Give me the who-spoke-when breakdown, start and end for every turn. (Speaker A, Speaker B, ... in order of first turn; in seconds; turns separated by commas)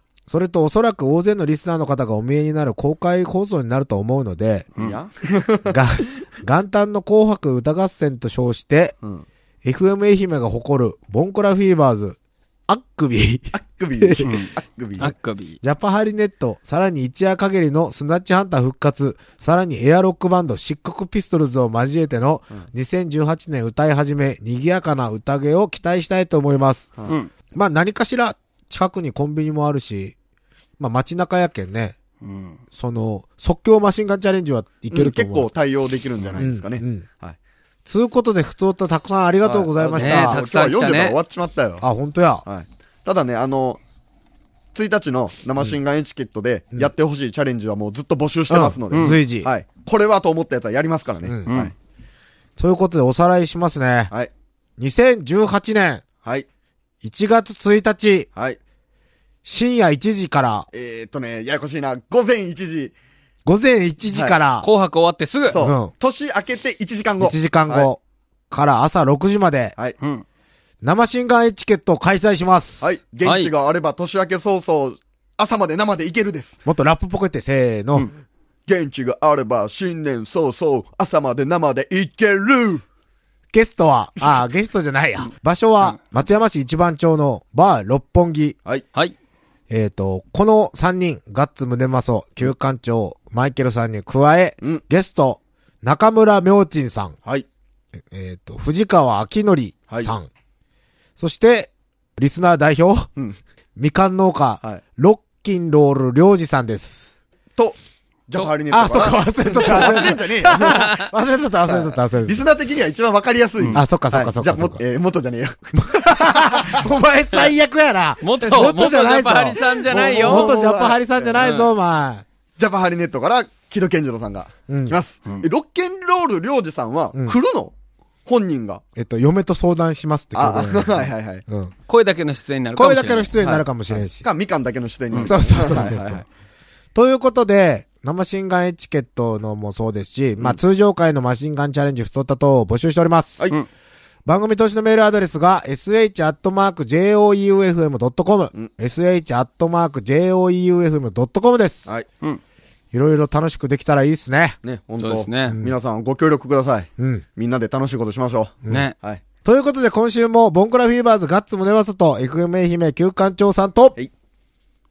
Speaker A: 0.3-4.7, Speaker B: 4.8-5.8, Speaker A: 5.7-8.9, Speaker A: 9.6-12.2, Speaker A: 12.7-14.3, Speaker B: 13.5-15.1, Speaker C: 14.2-15.6, Speaker A: 15.1-26.9, Speaker A: 27.5-30.1, Speaker A: 30.8-31.9, Speaker C: 32.2-32.6, Speaker A: 32.7-35.5, Speaker B: 34.9-37.4, Speaker A: 36.4-37.0, Speaker A: 37.9-40.4, Speaker B: 39.4-41.9, Speaker C: 39.9-41.2, Speaker A: 41.8-42.4, Speaker B: 42.4-43.8, Speaker B: 44.8-51.7, Speaker A: 48.5-49.5, Speaker C: 48.9-49.2, Speaker A: 51.2-51.5, Speaker C: 51.5-51.7, Speaker A: 52.6-54.1, Speaker A: 54.8-56.0, Speaker A: 57.0-58.3, Speaker A: 59.4-60.7, Speaker B: 60.7-62.9, Speaker A: 63.4-64.7, Speaker B: 64.1-64.4, Speaker C: 64.6-65.6, Speaker B: 65.5-67.9, Speaker A: 65.6-65.9, Speaker A: 67.2-68.0, Speaker A: 68.5-69.8, Speaker C: 70.0-70.2, Speaker A: 70.8-72.9, Speaker B: 72.8-76.6, Speaker C: 73.2-73.5, Speaker A: 76.7-78.1, Speaker B: 78.7-82.8, Speaker A: 83.5-88.6, Speaker A: 89.7-97.2, Speaker A: 98.1-100.3, Speaker A: 101.2-103.1, Speaker A: 103.8-107.2, Speaker B: 108.3-110.8, Speaker A: 108.7-112.4, Speaker C: 109.7-109.9, Speaker C: 110.5-111.1, Speaker B: 111.7-116.8, Speaker A: 113.7-114.8, Speaker A: 115.8-122.2, Speaker C: 118.2-120.5, Speaker B: 119.7-121.5, Speaker C: 121.4-121.7, Speaker B: 122.6-127.7, Speaker A: 124.7-125.0, Speaker B: 128.3-128.8, Speaker A: 128.9-131.7, Speaker B: 130.3-131.4, Speaker C: 131.9-133.4, Speaker A: 132.8-134.2, Speaker B: 133.4-136.2, Speaker A: 135.2-136.2, Speaker A: 136.9-143.5, Speaker A: 144.3-151.9, Speaker A: 152.9-154.6, Speaker B: 154.6-159.2, Speaker C: 155.0-155.6, Speaker A: 155.5-155.7, Speaker A: 157.0-157.2, Speaker C: 158.7-158.9, Speaker A: 159.4-164.0